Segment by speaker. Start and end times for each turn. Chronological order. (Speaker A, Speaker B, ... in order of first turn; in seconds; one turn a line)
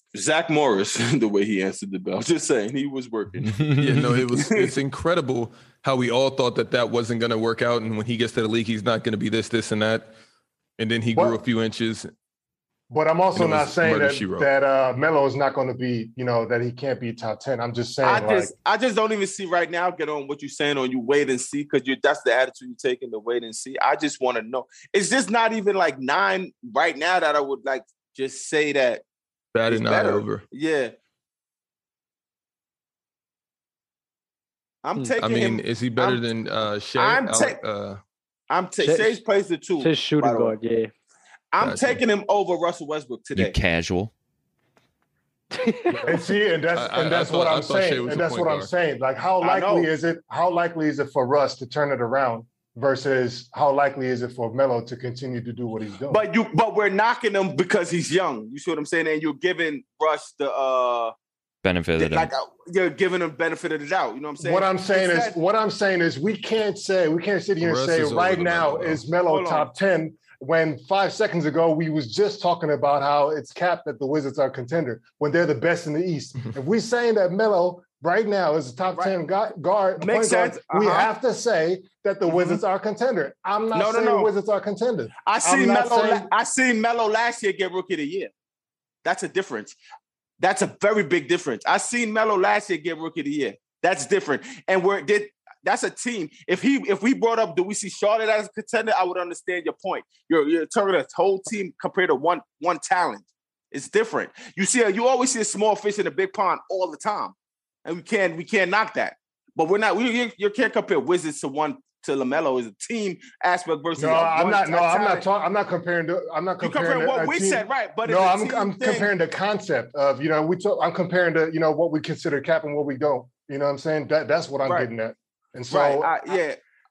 Speaker A: 0.1-3.6
Speaker B: 3.4-4.1
Speaker C: 3.8-10.1
Speaker A: 4.3-4.7
Speaker C: 10.8-12.1
Speaker D: 12.9-18.5
Speaker C: 13.3-14.5
Speaker A: 18.0-29.0
Speaker C: 29.5-30.4
Speaker A: 29.7-30.9
Speaker A: 34.8-36.2
Speaker C: 35.2-38.0
Speaker A: 36.9-37.6
Speaker A: 38.5-40.5
Speaker E: 38.8-39.2
Speaker E: 39.8-40.9
Speaker A: 41.5-43.6
Speaker C: 41.6-42.0
Speaker B: 43.3-44.1
Speaker E: 45.5-46.2
Speaker D: 46.0-56.2
Speaker C: 46.7-48.7
Speaker A: 49.4-49.9
Speaker A: 56.1-61.1
Speaker B: 61.6-62.3
Speaker A: 62.0-65.4
Speaker D: 64.4-86.3
Speaker C: 67.6-69.0
Speaker A: 69.2-69.7
Speaker A: 80.0-81.1
Speaker A: 82.3-82.6
Speaker A: 83.7-84.3
Speaker A: 85.2-88.3
Speaker A: 89.0-89.8
Speaker A: 90.4-115.2
Speaker D: 114.0-126.1
Speaker A: 116.6-119.1
Speaker A: 124.6-124.9
Speaker A: 125.7-126.6